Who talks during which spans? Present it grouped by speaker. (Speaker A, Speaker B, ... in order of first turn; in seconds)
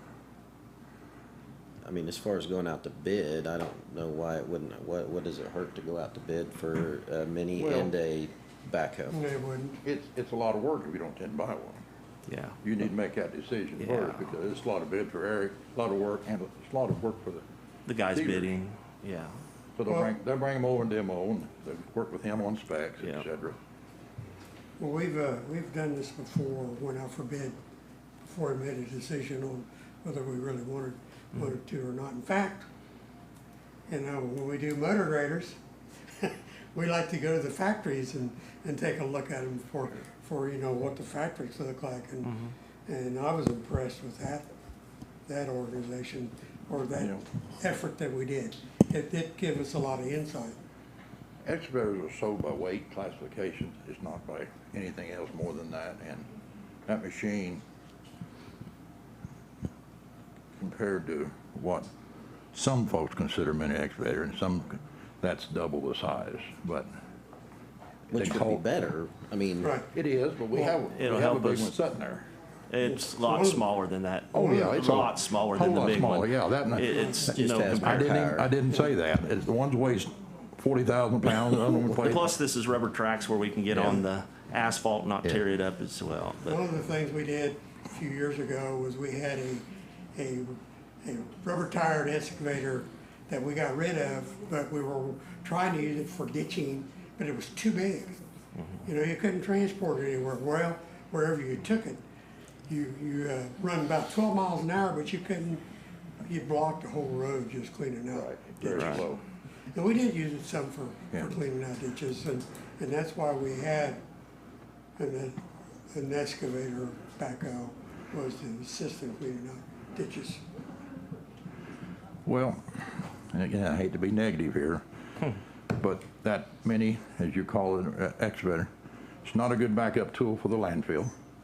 Speaker A: 1.8-9.2, 68.1-69.8, 77.3-78.5
Speaker B: 7.6-7.9, 9.8-11.8, 12.6-17.4, 18.1-18.5, 19.8-23.6, 51.4-56.3, 56.9-57.6, 60.6-61.9, 62.5-66.9, 68.1-68.7, 69.9-72.3, 74.3-82.3, 108.1-109.2, 122.3-124.8, 125.7-128.7, 129.2-131.1
Speaker C: 9.1-9.8, 24.8-27.6, 28.2-32.7, 33.9-35.6, 36.2-44.5, 45.3-50.6, 69.6-69.9, 70.5-70.8, 72.8-73.6, 86.5-98.2, 98.8-102.0, 102.7-105.6, 106.2-109.2, 109.7-114.0, 115.0-120.4
Speaker D: 12.3-12.6, 13.8-14.2, 17.9-19.4, 70.9-71.7, 72.7-78.1, 81.9-86.6, 108.7-109.0